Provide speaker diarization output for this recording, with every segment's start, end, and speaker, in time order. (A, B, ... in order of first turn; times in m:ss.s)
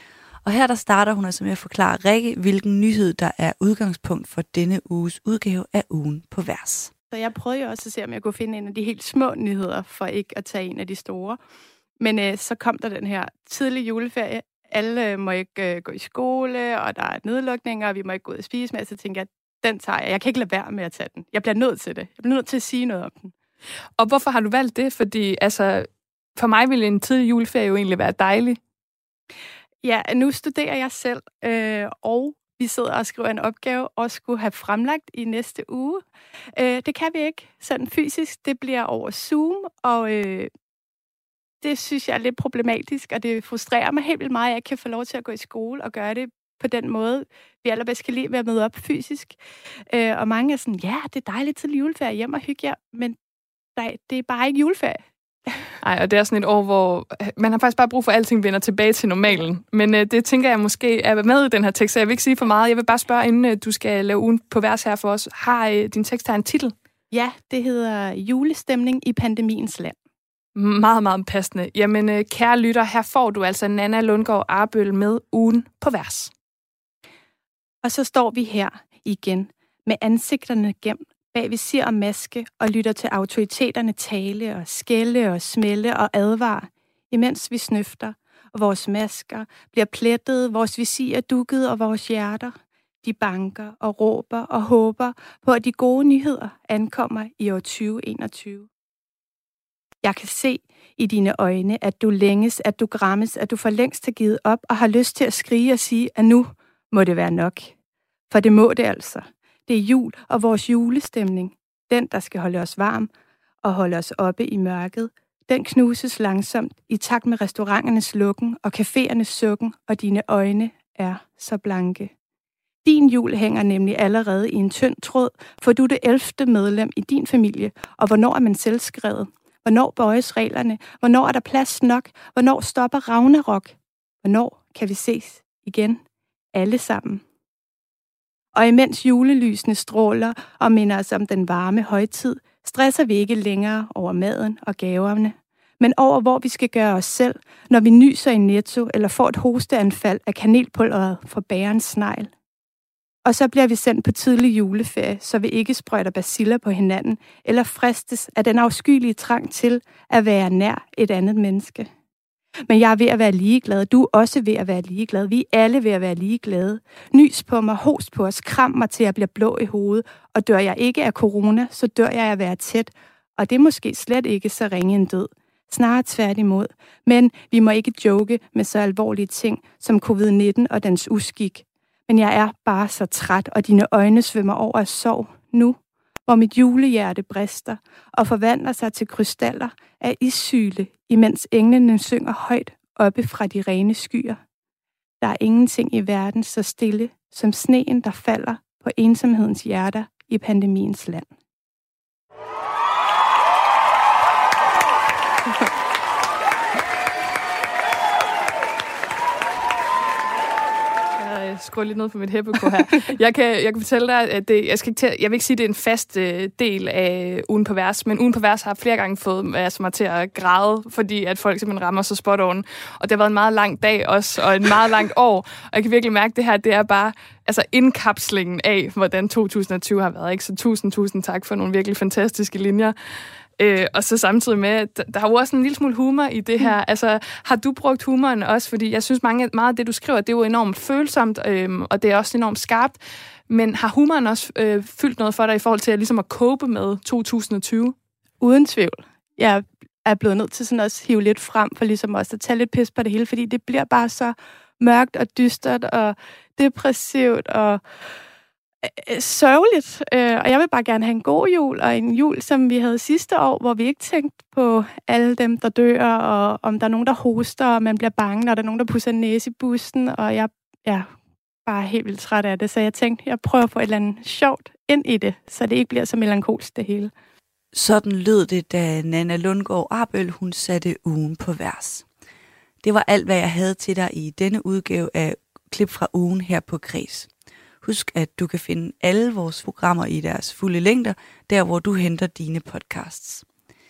0:00.4-0:06.9 A
0:07.1-0:11.4 B
0:12.0-0:23.3 B
0:24.0-0:28.6 C
0:29.8-0:36.0 B
0:36.6-0:40.5 B
0:41.6-0:49.4 B
0:49.9-0:53.2 B
0:53.8-0:55.5 B
0:55.8-1:06.7 C
1:07.1-1:10.0 B
1:10.5-1:16.3 C
1:17.8-1:38.7 B
1:40.0-1:47.7 B
1:48.3-1:53.1 B
1:53.6-2:02.1 B
2:02.8-2:16.0 B
2:16.5-2:17.2 B
2:18.5-2:32.3 B
2:33.2-2:41.9 B
2:42.7-3:14.4 B
3:15.2-3:21.3 B
3:31.2-3:52.9 C
3:53.6-4:03.0 C
4:03.5-4:07.9 C
4:08.4-4:17.8 B
4:18.9-4:31.1 B
4:31.6-4:37.1 B
4:37.7-4:42.0 A
4:42.8-4:47.3 A
4:47.8-4:53.4 A